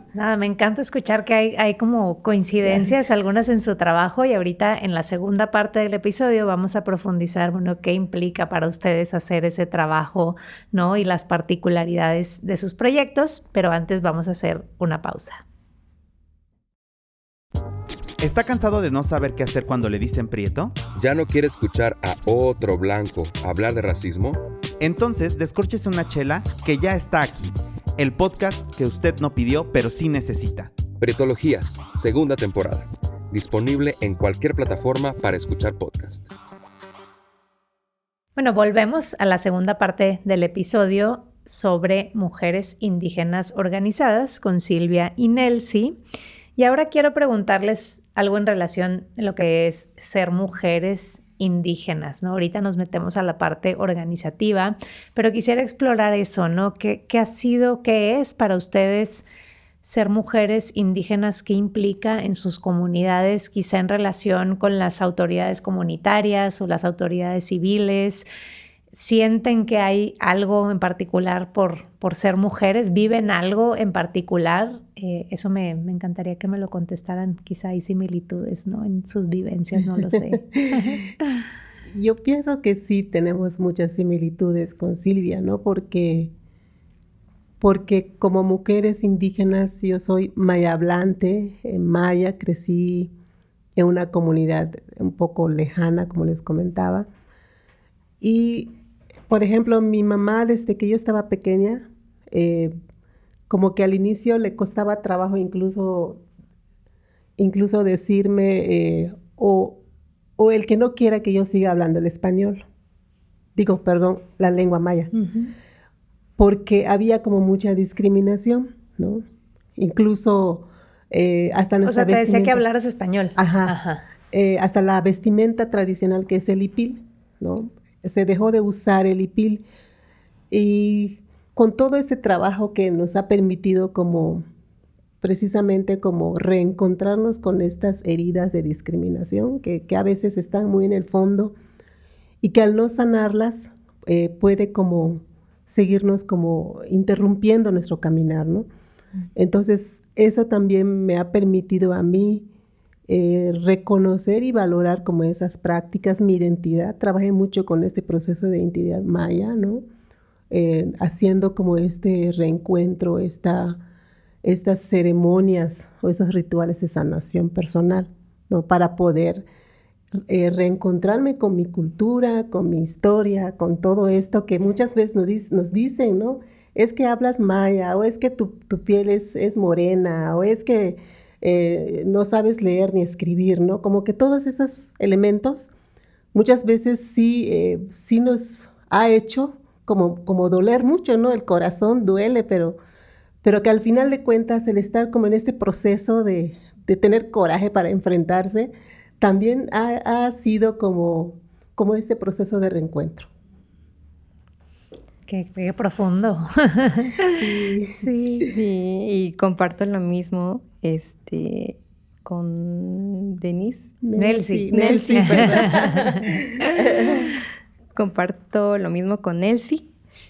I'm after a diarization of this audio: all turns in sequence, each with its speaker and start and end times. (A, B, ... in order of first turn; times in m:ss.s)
0:00.2-0:15.4 A
0:02.6-0:02.9 B
0:18.2-0:20.8 C
0:20.9-0:24.4 D
0:24.8-0:30.8 C
0:31.0-0:36.3 D
0:38.4-0:46.0 A
0:46.6-0:59.3 A
0:59.8-1:08.3 A
1:08.9-1:21.0 A
1:20.0-1:21.1 B
1:21.9-1:26.3 B
1:27.6-1:33.1 B
1:33.8-1:37.1 B
1:38.2-1:38.7 B
1:39.3-1:42.8 B
1:43.5-1:46.2 B
1:47.4-1:49.8 B
1:50.4-1:52.6 B
1:53.6-1:55.1 B
1:55.1-1:55.5 A
1:56.4-1:59.2 B
1:59.8-2:02.6 B
2:01.8-2:04.0 A
2:03.4-2:09.6 B
2:10.5-2:14.4 B
2:15.2-2:21.5 B
2:22.4-2:28.7 B
2:29.4-2:32.5 B
2:33.1-2:39.8 B
2:40.5-2:43.8 B
2:44.4-2:49.4 B
2:50.3-3:05.7 B
3:06.3-3:12.8 B
3:13.4-3:23.3 B
3:25.3-3:27.4 A
3:27.3-3:28.1 B
3:28.0-3:28.5 A
3:28.5-3:33.9 E
3:34.0-3:37.3 B
3:34.2-3:36.3 A
3:34.7-3:35.8 E
3:38.0-3:39.9 E